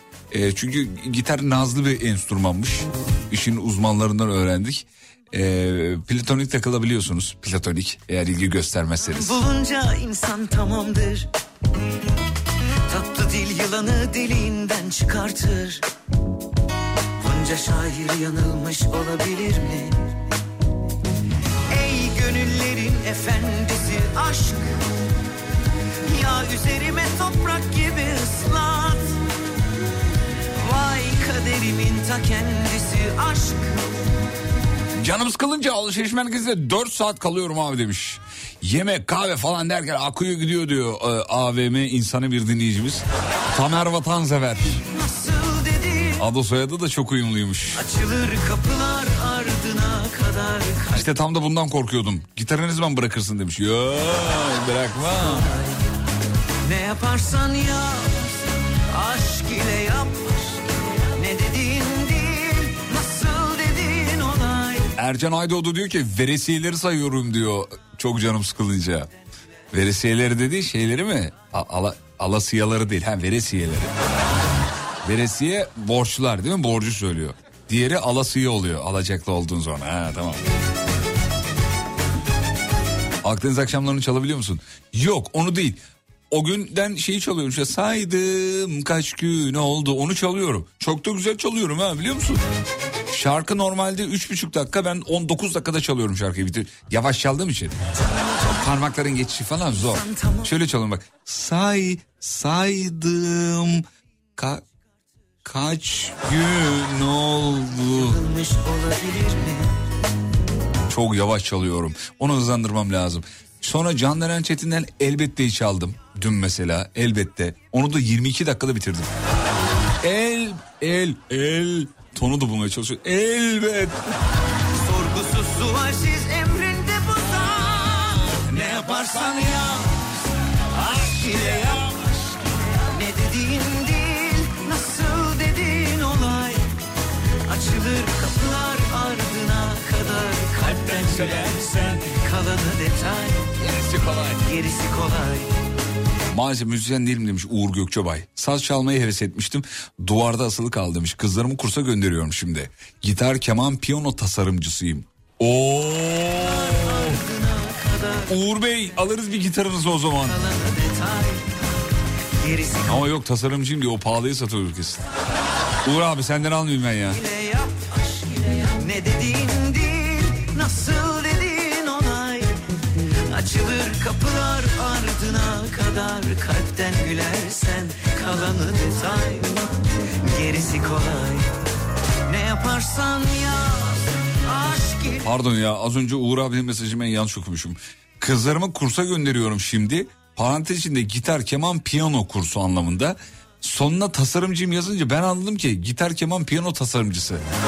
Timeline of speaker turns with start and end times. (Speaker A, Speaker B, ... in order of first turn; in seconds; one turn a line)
Speaker A: 0.3-9.4
Speaker B: 9.1-11.3
Speaker B: 12.9-15.8
Speaker B: 17.2-20.0
Speaker B: 21.7-24.8
Speaker B: 26.1-29.2
Speaker B: 30.6-33.8
Speaker A: 35.0-44.8
Speaker B: 44.7-46.2
Speaker A: 46.2-47.8
Speaker B: 47.7-51.0
Speaker A: 50.9-55.5
Speaker B: 55.1-55.8
Speaker B: 56.6-58.3
Speaker B: 58.9-64.9
Speaker A: 65.0-69.1
Speaker A: 69.7-73.9
Speaker A: 75.0-80.4
Speaker A: 83.2-92.4
Speaker A: 93.1-97.8
Speaker B: 98.0-98.7
Speaker A: 98.6-103.8
Speaker B: 99.8-100.5
Speaker A: 104.4-104.6
Speaker A: 105.4-108.2
Speaker B: 107.9-109.8
Speaker A: 110.9-119.1
Speaker A: 120.0-124.0
Speaker B: 124.7-130.0
Speaker A: 130.7-132.1
Speaker B: 131.0-132.0
Speaker B: 132.9-136.6
Speaker B: 137.4-143.5
Speaker A: 140.6-142.0
Speaker A: 143.6-144.4
Speaker B: 144.4-145.5
Speaker A: 146.3-157.2
Speaker B: 156.4-158.3
Speaker A: 158.3-160.4
Speaker B: 160.2-161.5
Speaker B: 162.4-163.0
Speaker A: 162.9-165.0
Speaker A: 165.8-167.2
Speaker B: 167.1-172.6
Speaker B: 173.3-179.6
Speaker B: 180.2-181.5
Speaker B: 182.3-185.3
Speaker A: 185.2-197.4